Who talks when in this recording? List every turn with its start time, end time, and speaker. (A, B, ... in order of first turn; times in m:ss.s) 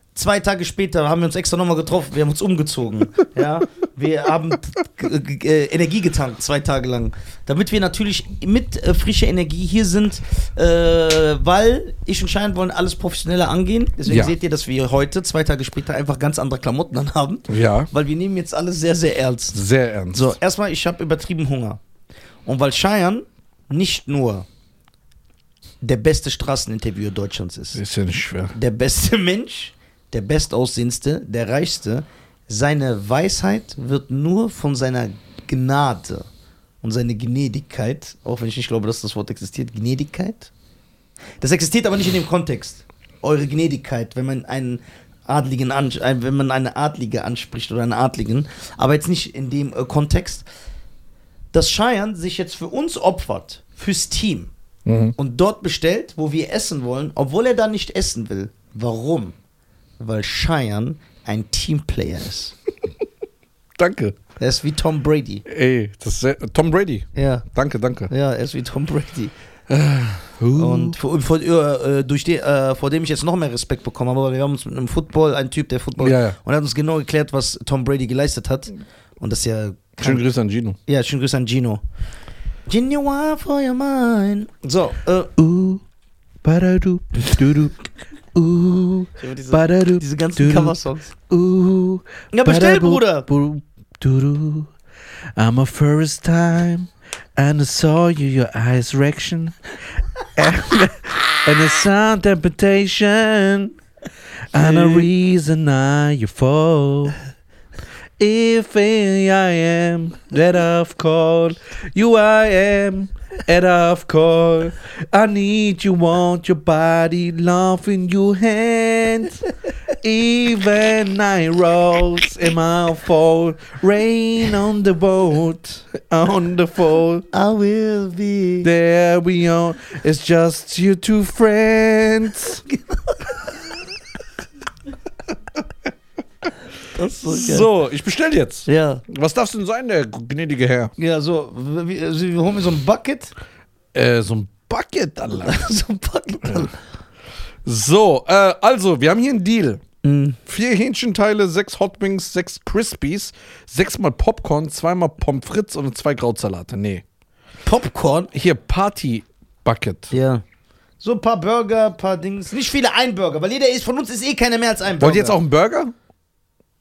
0:00.1-0:19.6 A
0:14.1-0:14.3 B
0:17.5-0:17.9 B
0:19.5-0:20.4 B
0:20.1-0:21.8 A
0:22.4-0:24.5 A
0:25.8-0:27.8 A
0:27.7-0:28.5 B
0:28.5-0:36.3 A
0:36.8-0:40.5 A
0:41.4-0:50.5 A
0:51.5-0:54.5 A
0:54.8-0:55.1 B
0:55.2-0:59.3 A
1:00.0-1:02.6 A
1:03.8-1:04.2 B
1:04.4-1:05.4 A
1:05.4-1:08.1 B
1:07.1-1:07.4 A
1:08.1-1:09.3 A
1:09.7-1:11.0 B
1:10.5-1:20.2 A
1:16.0-1:16.4 B
1:20.0-1:20.8 B
1:20.9-1:21.8 A
1:22.7-1:25.3 A
1:25.4-1:25.8 B
1:26.4-1:34.7 B
1:29.2-1:31.1 A
1:32.3-1:33.3 A
1:35.4-1:43.7 B
1:44.5-1:47.2 B
1:44.6-1:45.0 A
1:48.2-2:07.2 B
2:07.3-2:08.7 A
2:08.6-2:12.6 B
2:12.7-2:13.3 A
2:16.9-2:17.7 A
2:17.3-2:20.9 B
2:18.6-2:19.0 A
2:21.0-2:23.3 A
2:23.9-2:25.6 B
2:25.3-2:26.8 A
2:27.6-2:29.8 B
2:30.0-2:30.4 A
2:30.4-2:37.0 B
2:37.6-2:38.3 A
2:38.3-2:40.1 B
2:40.1-2:40.4 A
2:41.0-2:45.4 A
2:45.0-2:45.9 B